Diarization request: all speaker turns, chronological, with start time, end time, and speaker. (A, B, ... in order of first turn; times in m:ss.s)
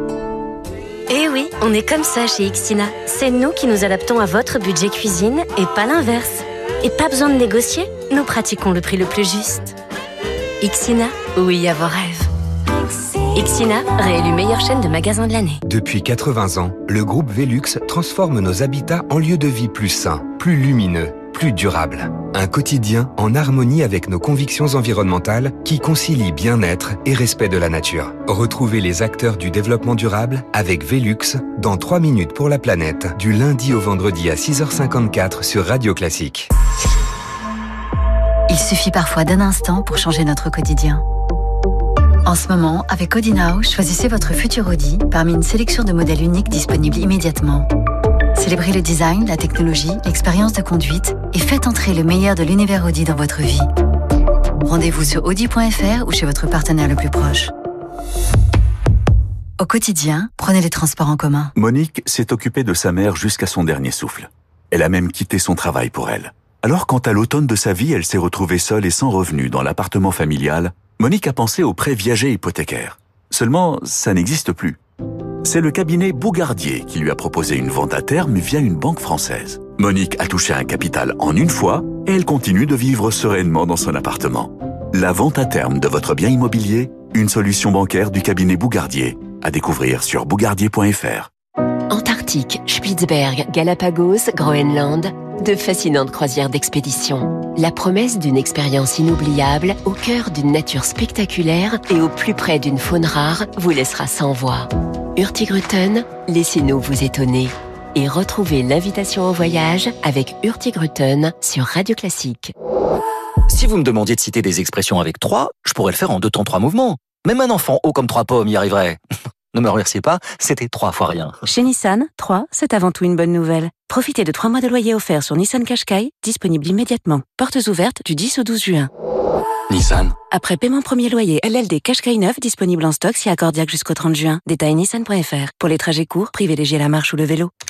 0:01.1-0:09.8 A
0:10.6-0:12.3 A
0:13.3-0:15.6 A
0:15.7-0:36.5 B
0:38.5-0:41.0 C
0:42.3-0:47.7 C
0:48.4-0:53.7 C
0:54.6-0:57.5 C
0:59.6-1:01.5 C
1:01.6-1:14.8 D
1:15.4-1:31.3 D
1:31.9-1:52.5 E
1:53.5-1:59.0 F
1:59.5-2:01.4 F
2:01.4-2:08.9 G
2:09.7-2:10.2 F
2:10.3-2:17.5 G